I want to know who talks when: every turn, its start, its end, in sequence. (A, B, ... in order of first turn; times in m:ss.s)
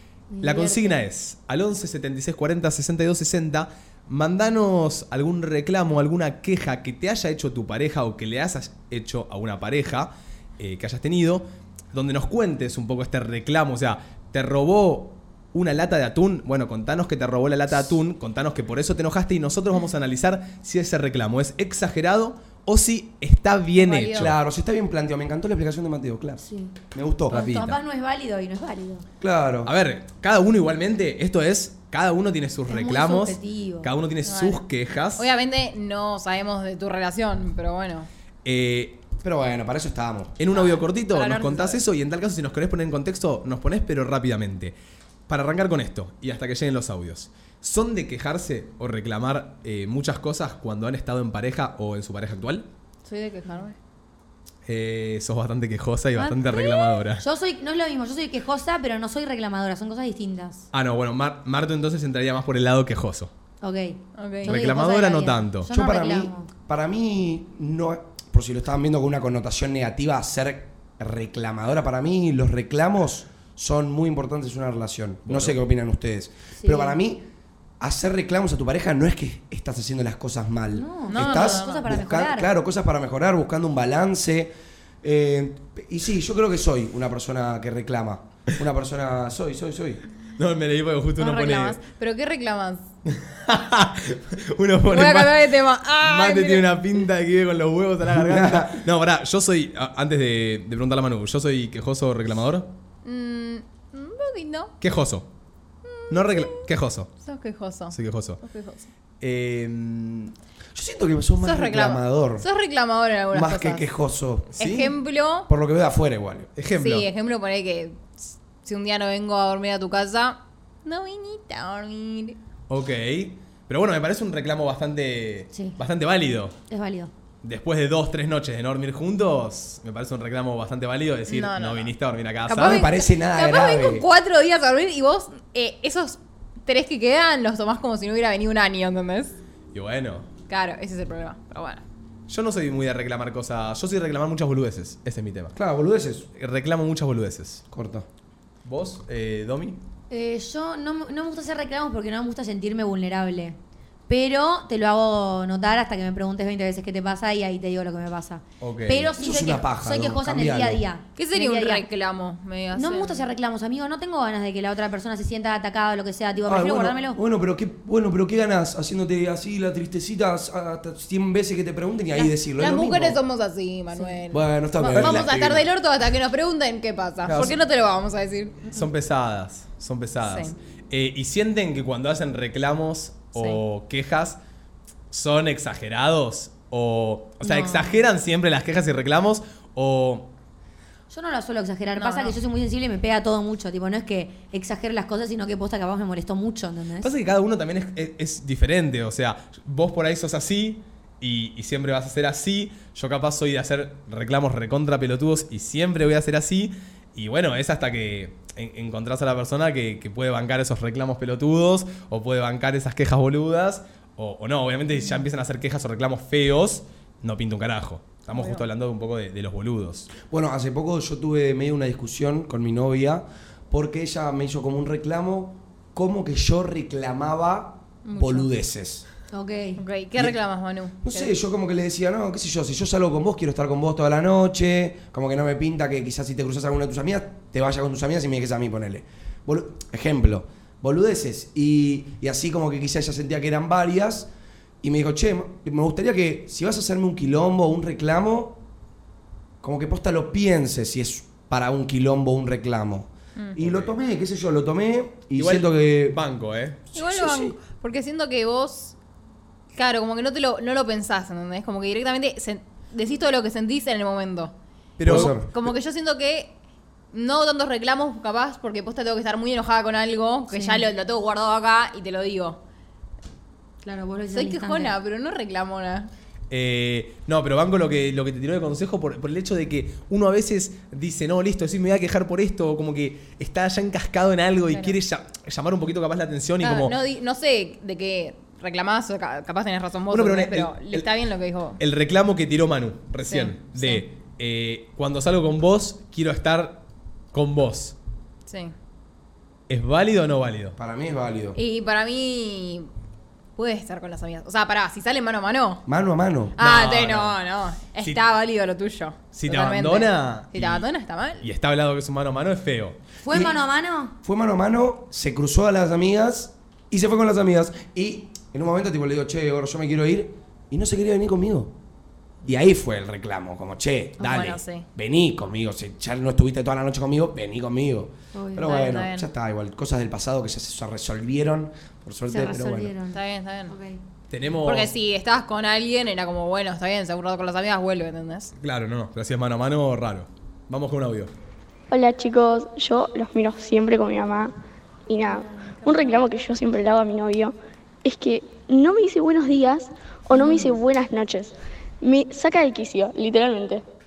0:00.3-0:01.0 A
0:00.4-0:24.3 B
0:23.8-0:24.3 C
0:24.1-0:27.6 D
0:26.4-0:26.8 A
0:27.3-0:27.8 B
0:27.3-0:29.0 A
0:29.2-0:29.7 D
0:29.6-0:35.2 B
0:32.7-0:33.9 A
0:34.2-0:34.6 C
0:35.2-0:38.1 C
0:38.4-0:39.0 B
0:39.2-0:40.4 D
0:40.4-0:44.7 B
0:40.5-0:41.8 C
0:45.3-0:52.7 B
0:53.0-0:53.8 C
0:54.6-0:57.2 B
0:56.2-1:00.7 A
1:00.7-1:03.3 B
1:03.6-1:06.5 A
1:04.2-1:04.5 C
1:04.4-1:05.7 B
1:05.7-1:17.2 D
1:15.2-1:15.6 B
1:16.6-1:17.0 A
1:17.8-1:30.0 D
1:20.7-1:22.5 A
1:21.1-1:21.9 C
1:30.4-1:31.8 B
1:31.2-1:32.9 C
1:33.0-1:42.7 B
1:34.9-1:37.0 C
1:38.1-1:38.8 D
1:43.0-1:44.7 C
1:44.8-1:45.3 B
1:45.9-1:46.6 C
1:46.1-1:47.1 B
1:47.2-1:48.9 C
1:47.9-1:48.4 B
1:49.2-1:50.3 B
1:50.7-1:52.4 D
1:51.4-1:53.9 C
1:53.3-1:54.5 D
1:54.5-1:54.9 B
1:54.6-1:55.5 C
1:55.5-1:56.5 D
1:56.6-1:57.1 B
1:56.7-2:02.4 C
2:02.7-2:06.6 B
2:05.5-2:05.8 A
2:06.7-2:07.1 A
2:07.4-2:12.9 B
2:11.3-2:11.9 C
2:12.5-2:19.4 C
2:12.6-2:14.0 D
2:19.7-2:20.3 B
2:20.5-2:21.8 C
2:22.3-2:25.6 B
2:25.5-2:26.3 D
2:26.4-2:27.6 B
2:27.7-2:28.1 D
2:28.6-2:29.8 B
2:30.1-2:33.6 A
2:34.1-2:41.8 A
2:38.6-2:39.1 B
2:39.2-2:40.8 D
2:41.2-2:43.3 C
2:42.7-2:47.2 A
2:46.4-2:53.2 D
2:52.1-2:58.8 C
2:54.3-2:55.7 D
2:57.2-2:57.6 B
2:58.7-3:04.4 B
3:00.2-3:00.5 C
3:03.4-3:03.6 C
3:05.1-3:10.3 B
3:07.4-3:07.9 C
3:11.1-3:17.1 A
3:12.0-3:12.4 C
3:17.0-3:40.1 B
3:38.3-3:38.6 C
3:40.3-3:49.0 D
3:48.0-3:48.5 C
3:49.3-3:49.8 A
3:49.8-3:51.3 C
3:51.0-4:04.3 D
4:04.8-4:08.6 D
4:09.6-4:16.2 D
4:13.4-4:13.6 C
4:15.4-4:16.8 B
4:16.9-4:17.6 D
4:16.9-4:18.9 C
4:19.7-4:24.5 C
4:25.0-4:25.3 B
4:25.0-4:25.5 D
4:25.0-4:26.5 C
4:27.1-4:32.6 C
4:30.5-4:30.8 A
4:33.8-4:34.9 A
4:34.3-4:36.1 C
4:36.5-4:46.9 B
4:44.7-4:45.0 C
4:46.6-4:51.8 C
4:50.1-4:51.1 B
4:51.8-4:56.8 B
4:53.3-4:54.0 C
4:57.3-4:57.9 B
4:58.5-4:58.7 C
4:59.7-5:00.8 B
5:00.8-5:01.6 D
5:01.5-5:02.9 C
5:03.6-5:05.8 C
5:05.8-5:06.6 D
5:06.6-5:11.4 C
5:06.6-5:07.4 B
5:09.3-5:10.8 B
5:11.4-5:13.0 B
5:13.2-5:14.1 A
5:13.3-5:13.6 D
5:14.2-5:21.7 D
5:22.4-5:32.9 D
5:24.2-5:24.8 C
5:28.3-5:28.7 A
5:28.6-5:29.3 C
5:32.3-5:34.0 A
5:33.1-5:33.7 C
5:34.3-5:34.9 B
5:34.6-5:38.5 C
5:38.6-5:41.3 B
5:41.9-5:44.5 E
5:45.1-5:53.8 E
5:50.3-5:50.8 A